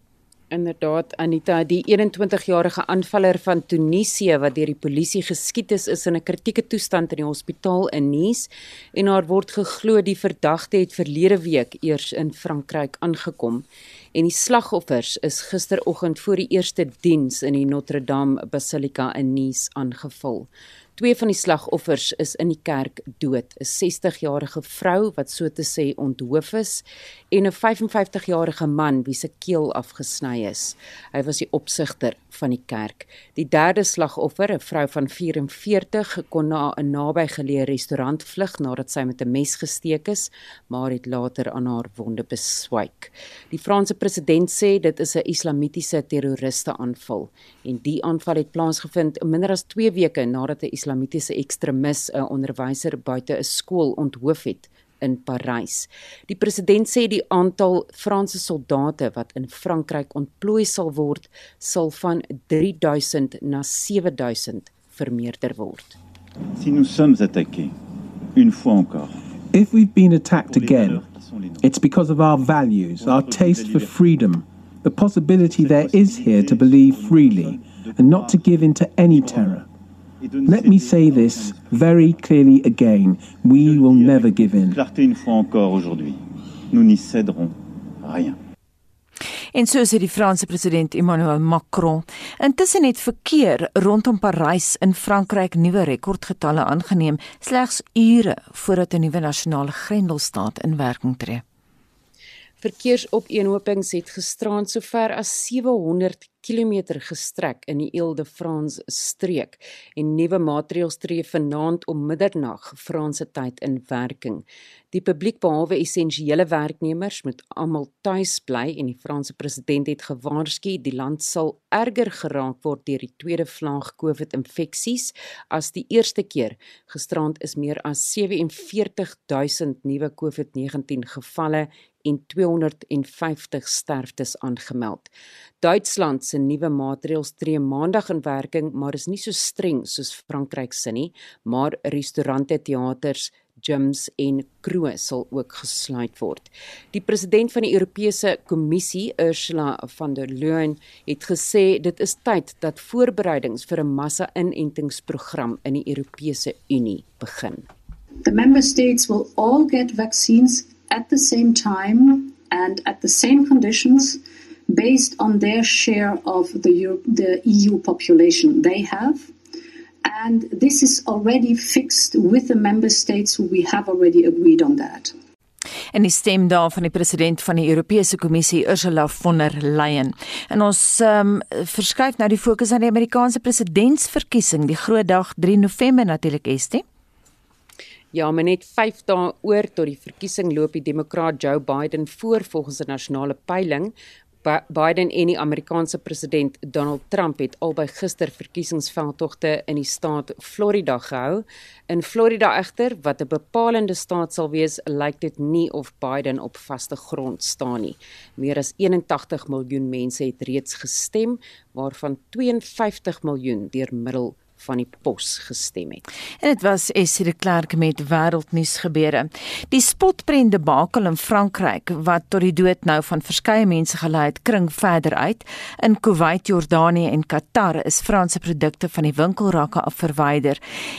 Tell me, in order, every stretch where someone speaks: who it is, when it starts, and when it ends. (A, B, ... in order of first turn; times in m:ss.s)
0:00.5-1:06.0 A
1:06.6-1:07.7 B
1:08.3-1:09.2 B
1:09.5-1:11.0 C
1:10.3-1:11.7 B
1:11.6-1:19.6 C
1:12.9-1:14.2 B
1:15.4-1:19.6 B
1:20.2-1:22.2 B
1:20.4-1:24.8 C
1:23.6-1:28.4 B
1:29.5-1:41.4 D
1:42.6-2:37.7 A
2:38.2-2:49.3 E
2:50.0-2:55.1 E
2:55.9-3:06.8 D
3:08.1-3:36.0 A
3:36.4-3:50.6 D